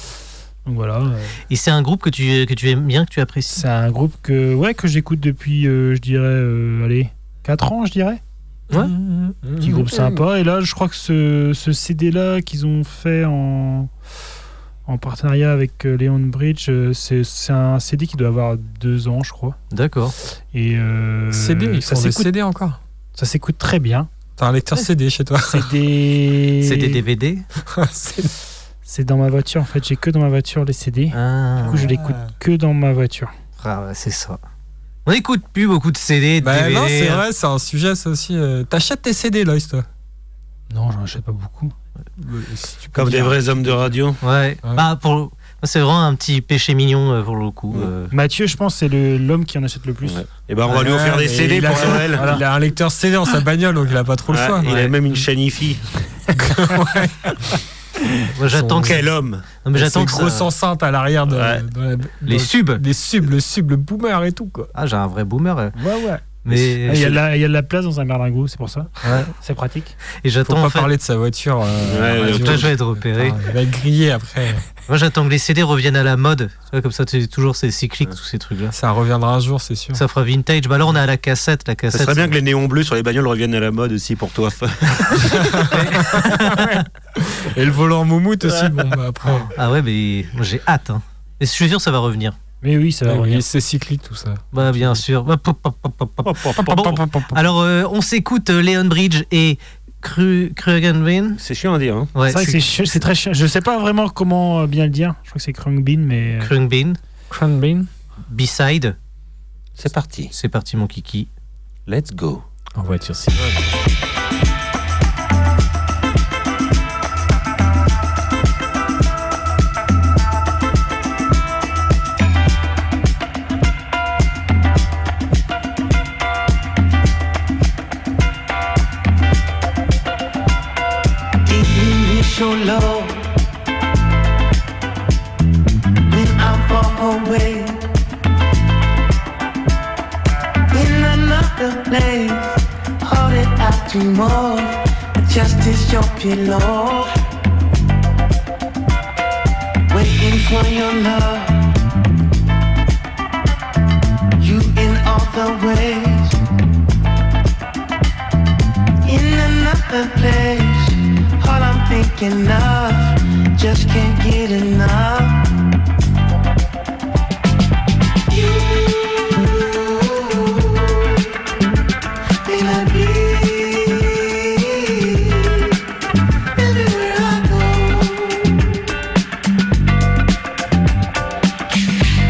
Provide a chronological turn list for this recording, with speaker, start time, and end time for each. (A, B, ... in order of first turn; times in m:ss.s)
0:00.6-0:01.4 A
0:01.5-0:03.6 B
0:03.5-0:08.2 A
0:08.7-0:10.2 C
0:09.6-0:13.9 A
0:14.8-0:19.6 A
0:19.7-0:20.1 B
0:20.5-0:22.3 A
0:21.3-0:22.8 C
0:23.2-0:24.1 A
0:24.4-0:25.8 C
0:25.5-0:27.0 A
0:26.6-0:27.4 B
0:27.7-0:28.4 C
0:28.8-0:33.3 A
0:31.1-0:31.9 B
0:31.8-0:32.3 C
0:33.6-0:34.4 B
0:35.0-0:37.2 B
0:36.4-0:39.8 C
0:40.7-0:41.7 A
0:42.2-0:44.0 C
0:42.9-0:44.2 D
0:44.2-0:48.1 B
0:48.1-0:50.3 A
0:50.0-0:52.3 D
0:50.7-0:54.7 C
0:51.8-0:52.4 A
0:54.3-0:55.8 D
0:54.6-0:54.9 B
0:56.3-0:57.5 C
0:58.3-0:59.0 B
0:58.4-0:59.0 C
0:58.8-0:59.4 D
0:59.6-1:00.5 B
0:59.7-1:04.7 C
1:01.3-1:01.6 D
1:02.2-1:02.8 B
1:04.7-1:05.7 B
1:05.8-1:06.2 C
1:06.4-1:07.1 B
1:06.8-1:09.9 A
1:09.0-1:09.3 C
1:10.2-1:10.9 B
1:10.4-1:14.6 C
1:11.9-1:12.7 D
1:12.2-1:13.4 B
1:14.9-1:18.7 B
1:18.7-1:20.0 C
1:19.9-1:22.3 B
1:21.9-1:25.6 D
1:25.0-1:26.8 B
1:25.4-1:29.5 C
1:29.4-1:32.4 B
1:32.6-1:33.4 A
1:33.0-1:35.0 C
1:34.5-1:36.8 B
1:36.2-1:37.0 D
1:36.5-1:37.4 C
1:37.3-1:41.4 B
1:41.4-1:42.1 D
1:42.1-1:42.6 B
1:42.2-1:46.5 A
1:46.4-1:47.0 B
1:47.3-1:47.9 C
1:48.3-1:49.0 B
1:49.8-1:50.3 D
1:50.3-1:51.3 B
1:51.9-1:52.4 D
1:52.8-1:53.6 C
2:11.5-2:13.3 E
2:16.1-2:17.8 E
2:20.7-2:27.1 E
2:29.9-2:31.7 E
2:34.4-2:36.4 E
2:39.0-2:45.4 E
2:48.3-2:51.2 E
2:52.4-2:55.7 E
2:56.6-2:58.6 E